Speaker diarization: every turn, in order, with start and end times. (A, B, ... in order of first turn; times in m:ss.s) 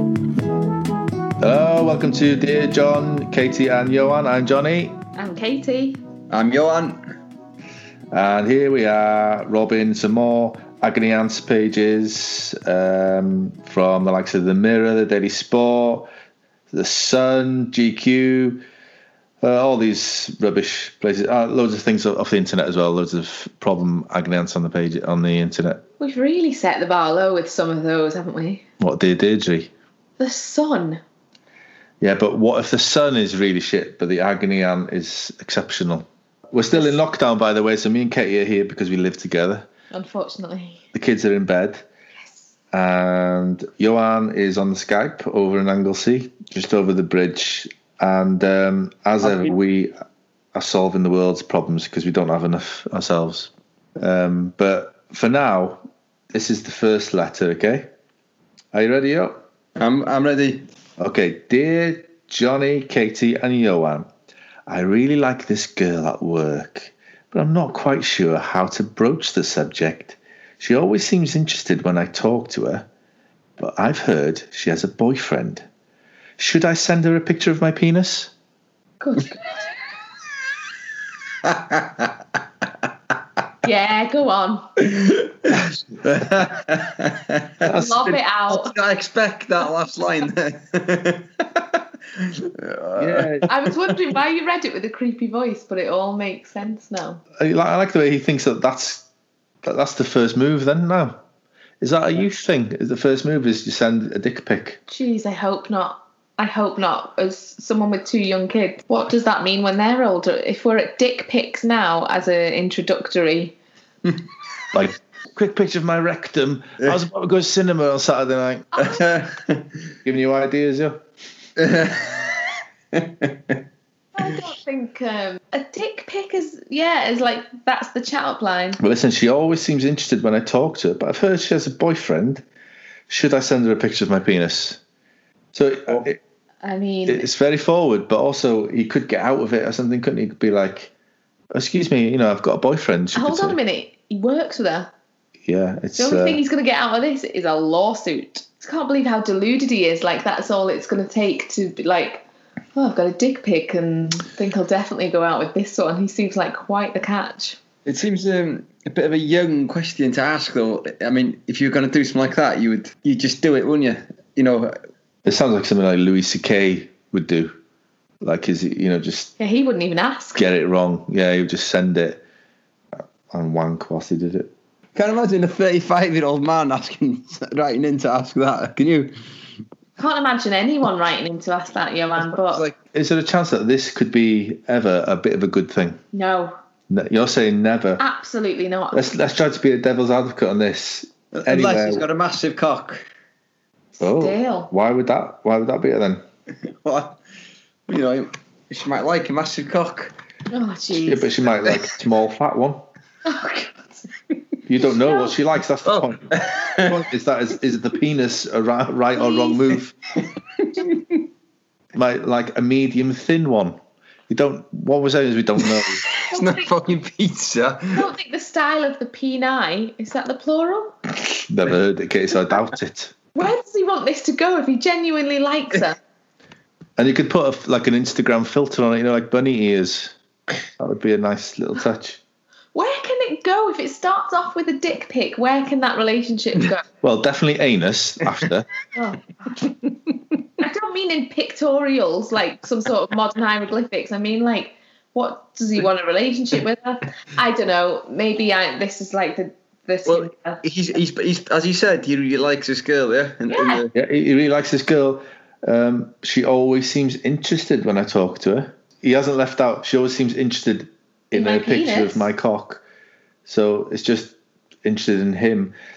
0:01.4-0:05.0 A
0:05.2-0:06.0 B
0:06.3-0:07.0 C
0:08.1-0:16.1 A
0:16.7-0:18.6 A
0:19.4-0:25.8 A
0:26.0-0:28.6 B
0:28.8-0:29.7 A
0:30.2-0:31.0 B
0:32.0-0:39.7 A
0:36.7-0:37.0 B
0:39.9-0:40.8 B
0:40.9-0:41.8 A
0:42.7-0:49.9 A
0:49.2-0:49.5 C
0:50.5-0:57.9 A
0:58.7-0:59.4 A
0:59.8-1:00.6 C
1:01.0-1:04.1 A
1:04.7-1:12.9 A
1:13.6-1:15.7 A
1:16.4-1:18.3 A
1:19.0-1:19.4 B
1:21.4-1:22.1 C
1:23.6-1:24.7 B
1:24.9-1:33.5 C
1:27.6-1:28.7 B
1:33.0-1:33.5 A
1:33.5-1:37.2 B
1:37.4-1:39.1 A
1:39.6-1:41.2 A
1:41.8-1:44.8 A
1:44.9-1:53.6 B
1:54.7-1:58.9 A
1:58.8-1:59.7 C
2:00.0-2:01.0 A
2:01.6-2:03.6 C
2:04.2-2:08.8 B
2:08.8-2:12.4 A
2:13.1-2:14.8 A
2:15.5-2:16.2 A
2:16.6-2:17.3 B
2:17.0-2:20.9 A
2:21.5-2:23.6 A
2:23.1-2:24.9 B
2:25.4-2:26.4 A
2:26.0-2:32.2 B
2:32.7-2:37.6 B
2:37.8-2:44.7 C
2:45.2-2:47.5 A
2:48.2-2:49.3 A
2:49.4-2:50.4 B
2:50.3-2:52.2 A
2:53.3-2:54.5 A
2:55.0-2:59.1 C
3:00.0-3:02.6 B
3:02.2-3:02.7 C
3:02.9-3:06.0 A
3:06.1-3:06.5 B
3:06.9-3:08.0 A
3:08.0-3:09.1 B
3:08.9-3:12.0 A
3:11.3-3:13.0 C
3:14.0-3:14.7 B
3:14.0-3:16.2 A
3:16.7-3:17.2 C
3:17.9-3:20.1 C
3:20.5-3:21.3 B
3:21.0-3:22.8 A
3:23.2-3:24.0 B
3:24.7-3:29.9 A
3:25.0-3:25.3 B
3:25.8-3:27.0 C
3:29.2-3:29.7 B
3:31.9-3:36.0 A
3:36.1-3:36.7 B
3:36.1-3:38.1 C
3:37.9-3:40.9 B
3:41.5-3:43.1 A
3:43.3-3:46.0 B
3:47.0-3:50.1 A
3:50.8-3:52.2 A
3:52.7-3:56.8 B
3:57.0-3:58.7 A
3:58.9-3:59.6 B
4:00.6-4:10.6 B
4:10.0-4:13.9 C
4:13.5-4:13.8 B
4:13.9-4:22.8 A
4:21.3-4:22.3 B
4:23.4-4:25.7 A